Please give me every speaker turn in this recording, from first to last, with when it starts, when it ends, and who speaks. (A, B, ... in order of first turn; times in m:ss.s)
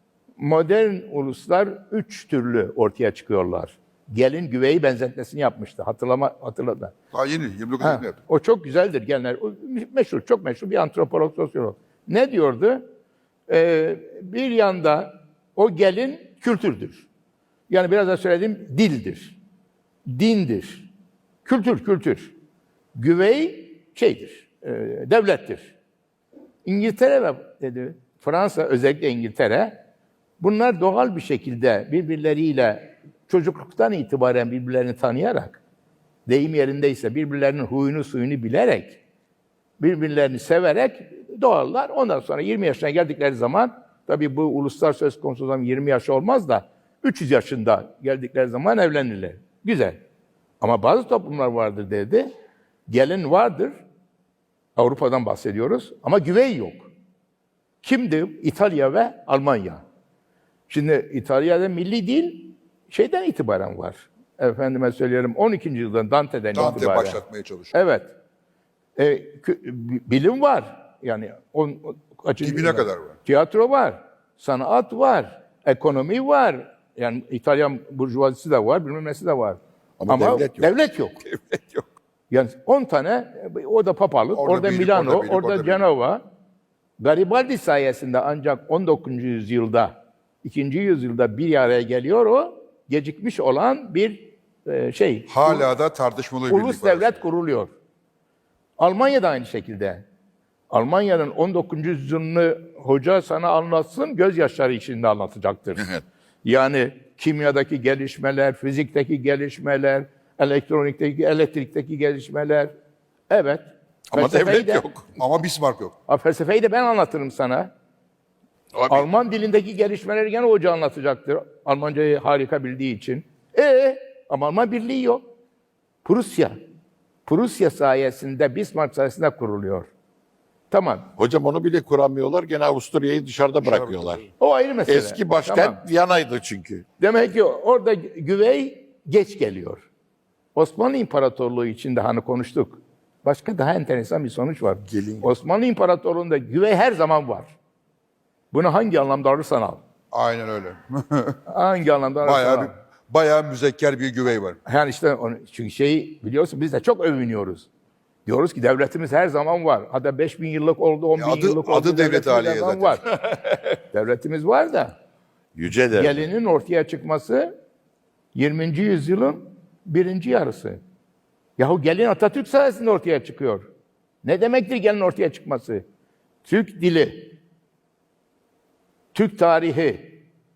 0:00.4-0:07.0 A
0:07.1-0:08.2 B
0:07.8-0:12.9 A
0:13.5-0:17.1 A
0:17.7-0:19.4 A
0:20.1-0:20.9 A
0:21.4-0:22.3 A
0:23.0-0:25.8 A
0:26.7-0:29.8 A
0:30.4-0:35.6 A
0:36.3-0:39.0 A
0:39.8-0:50.0 A
0:50.6-0:52.3 A
0:52.9-0:53.8 A
0:54.8-0:56.9 A
0:57.8-0:59.8 A
1:00.7-1:07.2 A
1:06.5-1:07.7 B
1:07.7-1:08.1 A
1:09.0-1:21.2 A
1:12.4-1:13.2 B
1:20.0-1:20.7 C
1:22.3-1:26.2 A
1:24.4-1:25.9 B
1:27.0-1:35.7 A
1:35.3-1:37.1 B
1:36.5-1:37.7 A
1:38.8-1:40.0 A
1:40.7-1:45.9 A
1:46.4-1:52.7 A
1:53.3-1:54.9 A
1:54.1-1:55.0 C
1:55.2-1:55.9 B
1:56.1-1:57.7 A
1:58.8-1:59.0 C
1:58.9-2:05.2 A
2:06.0-2:06.6 A
2:07.3-2:09.9 A
2:10.7-2:11.1 A
2:11.2-2:14.2 C
2:13.7-2:14.3 B
2:14.4-2:15.8 A
2:14.9-2:16.8 C
2:17.0-2:19.9 A
2:20.6-2:27.6 A
2:24.9-2:25.3 C
2:28.5-2:29.8 A
2:30.1-2:31.4 B
2:31.5-2:32.7 A
2:32.2-2:34.6 B
2:34.7-2:37.7 A
2:38.3-2:43.2 A
2:41.2-2:43.0 B
2:43.9-2:45.0 A
2:45.6-2:46.2 C
2:45.9-2:47.5 A
2:48.4-2:50.8 A
2:51.6-2:53.7 A
2:54.2-2:55.8 A
2:56.4-2:57.3 A
2:59.1-3:00.1 A